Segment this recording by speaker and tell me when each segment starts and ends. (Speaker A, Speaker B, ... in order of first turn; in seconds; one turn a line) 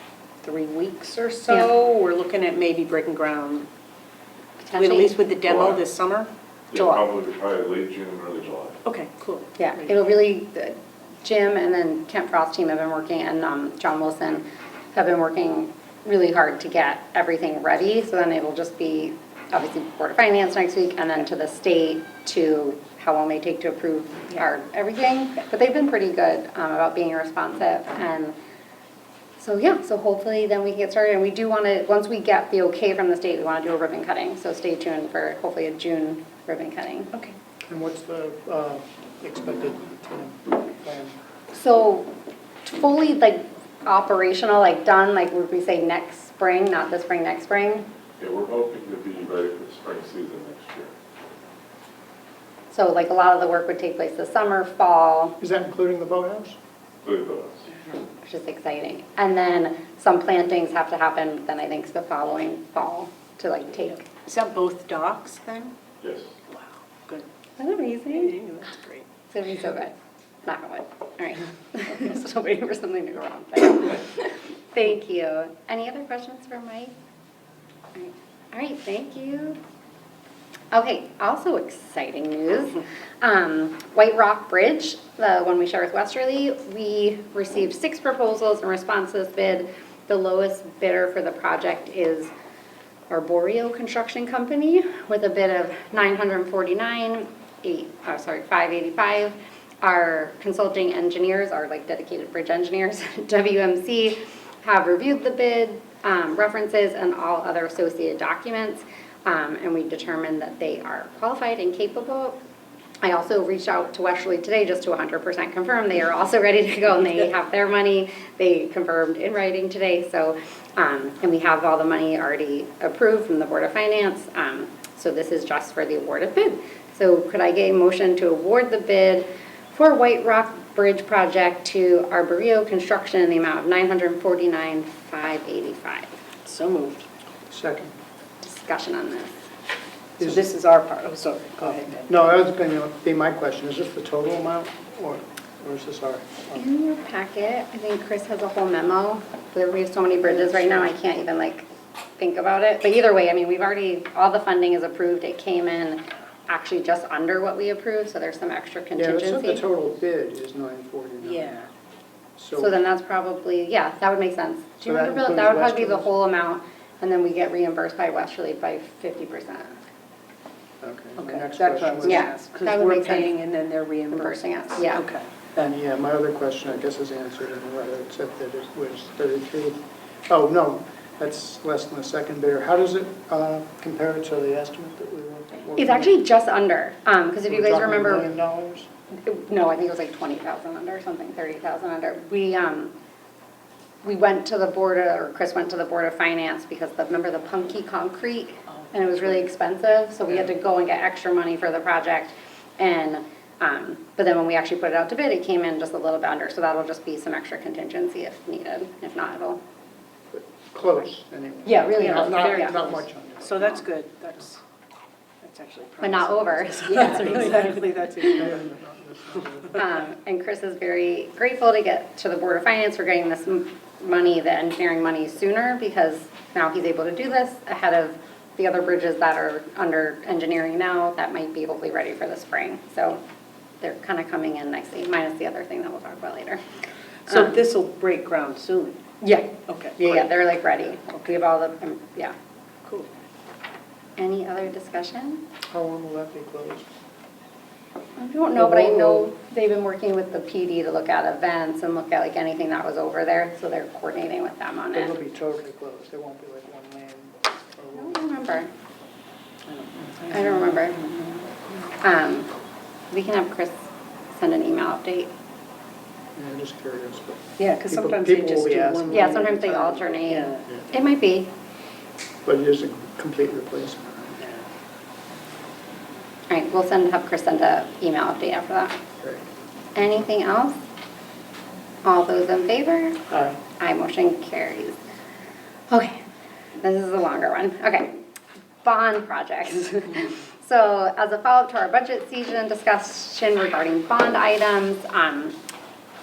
Speaker A: 0.4-3.7
Speaker B: 4.7-5.1
Speaker A: 4.7-7.0
Speaker C: 5.4-5.8
Speaker C: 6.7-8.8
Speaker A: 8.8-9.9
Speaker B: 9.6-28.3
Speaker B: 29.4-37.1
Speaker D: 37.7-41.2
Speaker B: 41.5-42.1
Speaker B: 42.6-47.9
Speaker C: 48.2-50.9
Speaker B: 52.7-55.4
Speaker D: 55.4-56.6
Speaker C: 57.0-57.7
Speaker B: 58.2-64.1
Speaker A: 64.0-65.7
Speaker C: 66.0-66.3
Speaker A: 66.5-67.2
Speaker B: 67.6-68.3
Speaker A: 68.1-69.1
Speaker B: 69.3-69.9
Speaker B: 70.5-76.9
Speaker B: 77.9-79.6
Speaker B: 80.7-92.3
Speaker B: 93.1-112.4
Speaker B: 113.0-136.1
Speaker A: 136.4-137.1
Speaker D: 137.5-137.9
Speaker B: 138.4-139.3
Speaker A: 140.2-142.2
Speaker D: 141.6-146.6
Speaker B: 146.5-151.7
Speaker B: 152.2-159.6
Speaker D: 158.9-161.6
Speaker A: 161.2-161.7
Speaker D: 162.3-162.8
Speaker B: 162.6-169.8
Speaker D: 164.8-166.1
Speaker D: 170.8-172.3
Speaker A: 171.2-175.5
Speaker B: 172.0-173.3
Speaker B: 174.1-175.0
Speaker D: 175.6-186.1
Speaker B: 185.8-188.3
Speaker D: 187.5-188.9
Speaker B: 189.1-192.9
Speaker B: 194.0-209.6
Speaker D: 210.3-213.8
Speaker A: 211.7-214.6
Speaker B: 211.8-212.7
Speaker A: 215.4-218.7
Speaker B: 216.0-217.7
Speaker D: 217.3-217.7
Speaker D: 218.3-219.8
Speaker B: 219.7-233.2
Speaker B: 233.8-236.6
Speaker A: 237.3-239.0
Speaker B: 239.2-242.3
Speaker A: 239.7-240.3
Speaker A: 242.8-243.1
Speaker B: 244.2-245.4
Speaker D: 245.7-246.9
Speaker B: 248.2-255.1
Speaker D: 248.5-249.3
Speaker D: 254.9-258.2
Speaker B: 257.9-258.7
Speaker A: 259.7-260.4
Speaker B: 260.3-262.5
Speaker B: 263.1-263.8
Speaker B: 264.3-265.3
Speaker D: 266.3-269.4
Speaker A: 267.6-270.7
Speaker B: 269.1-271.5
Speaker D: 272.4-274.4
Speaker A: 274.4-274.6
Speaker B: 276.5-279.0
Speaker B: 279.9-280.8
Speaker B: 282.0-283.2
Speaker D: 283.3-283.6
Speaker B: 283.8-285.0
Speaker B: 285.9-286.2
Speaker B: 286.8-288.1
Speaker B: 288.8-295.6